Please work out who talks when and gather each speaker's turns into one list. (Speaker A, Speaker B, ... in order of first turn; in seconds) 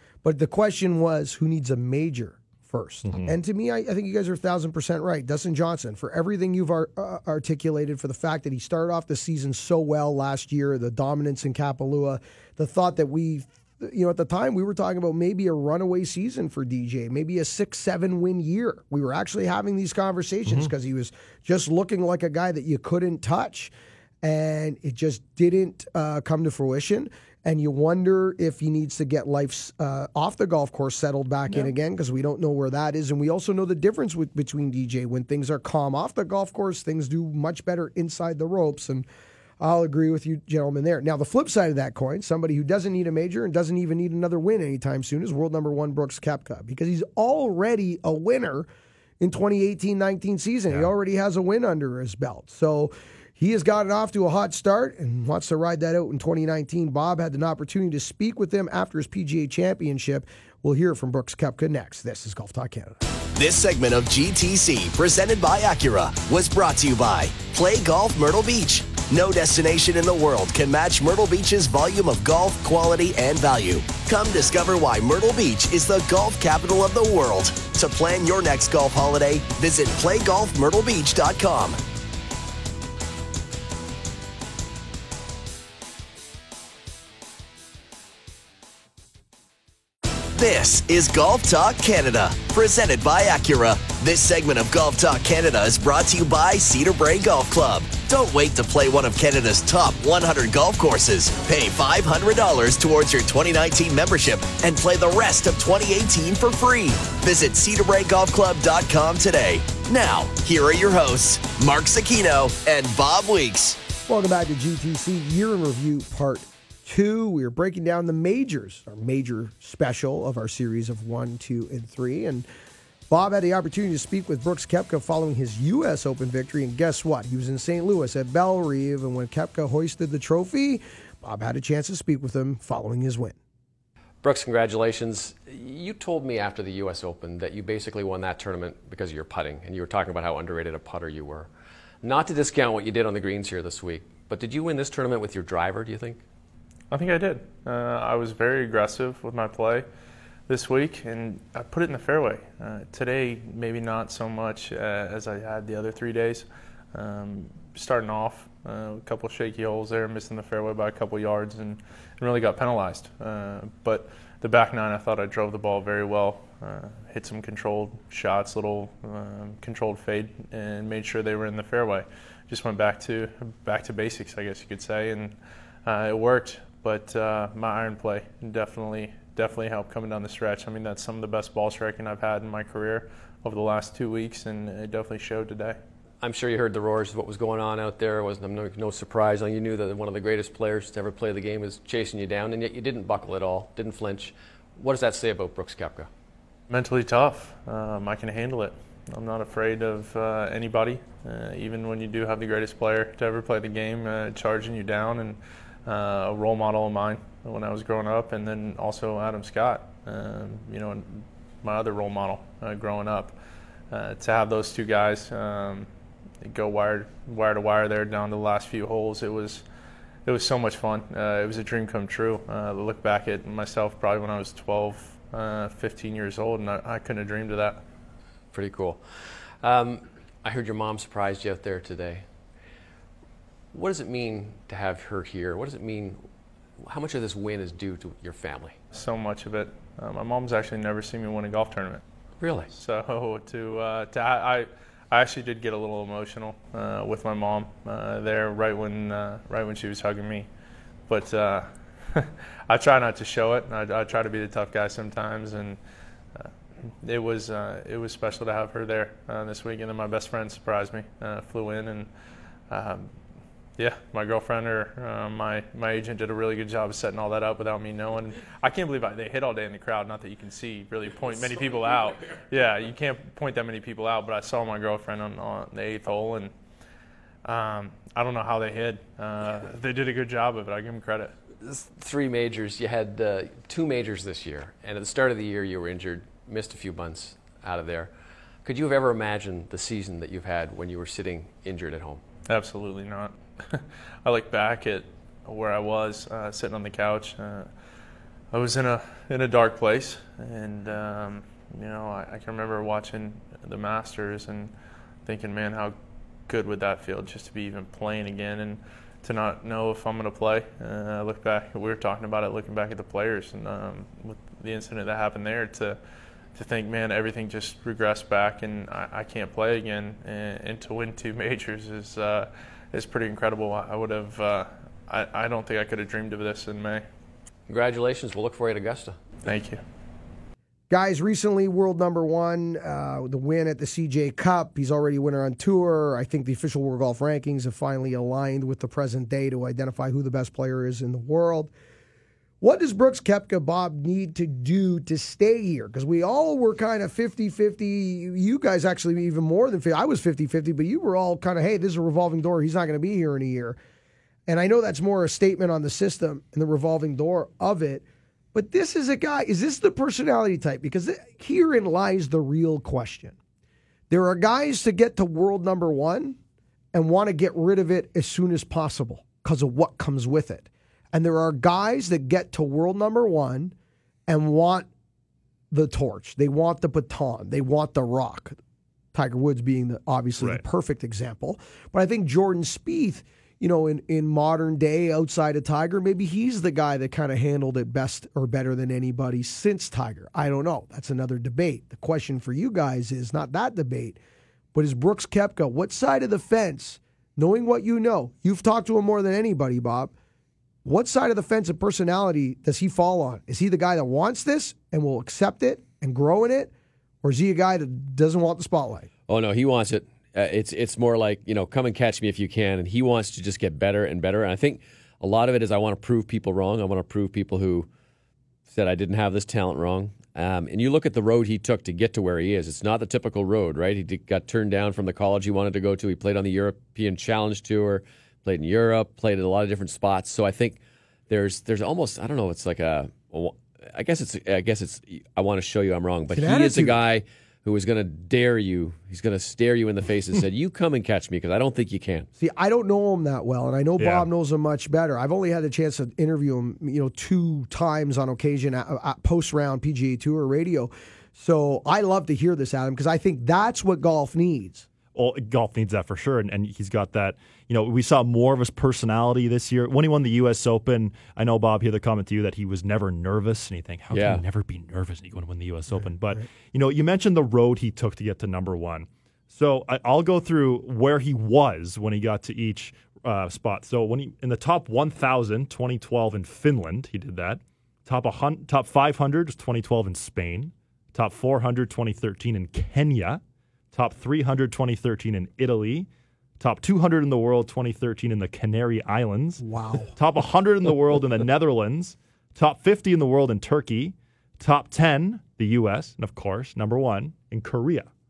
Speaker A: 0.2-39.0, 39.6-48.7, 49.2-63.0, 114.1-122.5, 123.1-133.4, 330.9-341.7, 342.6-353.8, 354.5-363.4, 364.1-366.4, 366.9-373.7, 374.3-374.9, 375.7-378.6, 379.1-394.2, 394.7-400.1, 400.8-406.7, 407.2-409.1, 436.3-437.0, 442.4-454.9, 489.6-490.1
Speaker B: 3.0-3.4, 444.0-444.3, 455.1-483.4, 483.9-486.1, 486.6-498.1
Speaker C: 63.4-81.8, 90.4-113.8
Speaker D: 134.2-141.5, 142.0-146.2, 186.2-196.1, 228.5-229.0, 229.6-232.2, 233.7-236.2, 236.8-238.8, 242.4-242.7, 281.6-288.1, 288.6-292.2, 327.7-329.2, 409.3-417.9, 418.7-442.3, 464.1-464.4
Speaker E: 146.9-149.9, 150.5-185.8, 196.7-213.4, 213.9-215.9, 216.4-219.7, 220.2-227.8, 238.9-242.0, 242.7-250.5, 251.1-255.8, 256.3-262.1, 262.7-263.2, 263.8-276.5, 277.4-281.3, 292.5-297.7, 298.5-304.7, 305.2-305.9, 306.5-316.0, 316.5-327.0, 329.4-329.8